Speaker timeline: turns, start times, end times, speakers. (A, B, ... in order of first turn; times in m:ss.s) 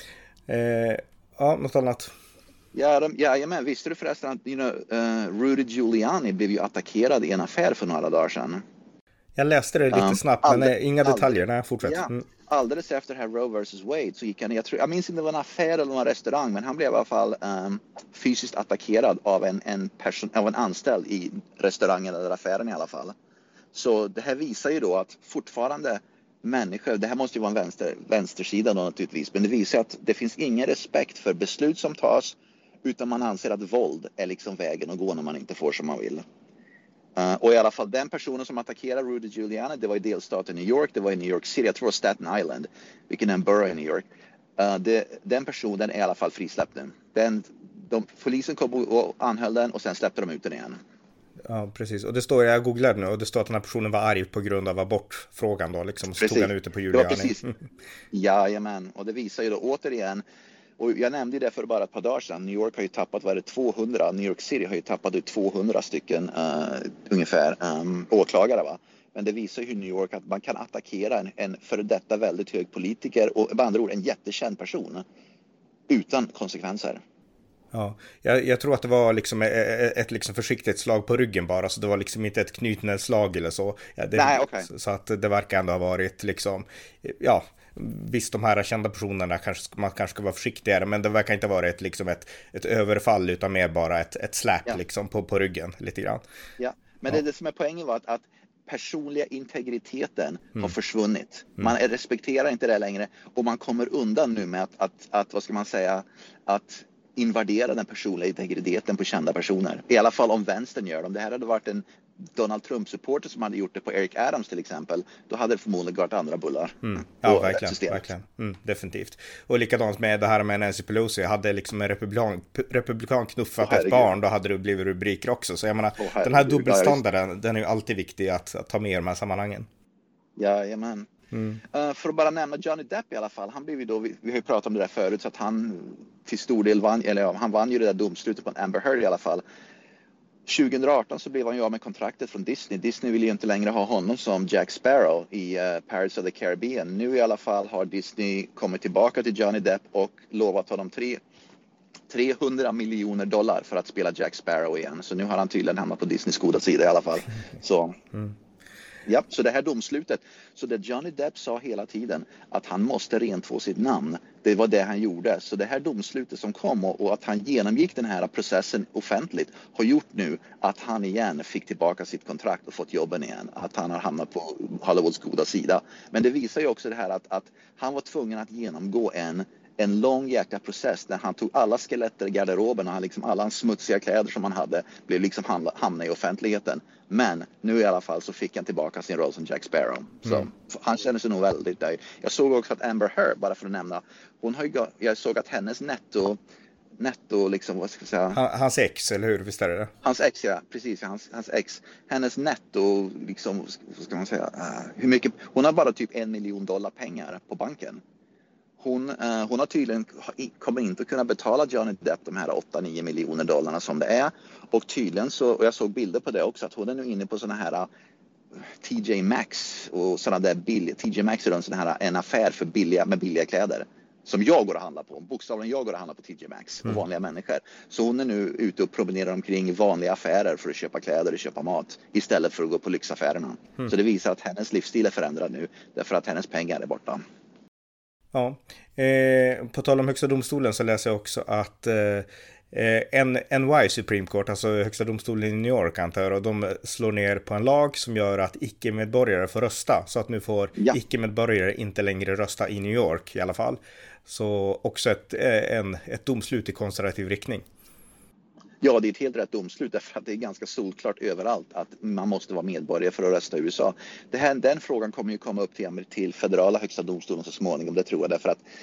0:00.5-0:02.1 A
0:02.7-0:08.6 B
0:09.4-0:12.2 A
0:09.9-0:23.2 B
0:23.7-0:36.2 B
0:37.2-0:50.8 B
0:51.4-0:57.5 A
0:56.2-0:57.4 B
0:58.1-1:00.2 B
1:00.8-1:15.0 B
1:15.9-1:17.0 B
1:17.7-1:36.2 A
1:24.2-1:24.7 B
1:36.6-1:58.1 B
1:56.8-2:09.7 A
2:03.6-2:04.2 B
2:06.0-2:07.0 B
2:10.4-2:11.1 B
2:11.3-2:11.6 A
2:11.6-2:19.4 B
2:20.5-2:31.2 B
2:32.1-2:38.0 B
2:39.1-3:16.4 B
3:17.0-3:18.4 B
3:18.3-3:19.9 A
3:20.0-3:28.0 B
3:28.8-3:37.9 B
3:38.7-3:57.2 B
3:58.3-4:17.6 A
4:18.8-4:28.6 B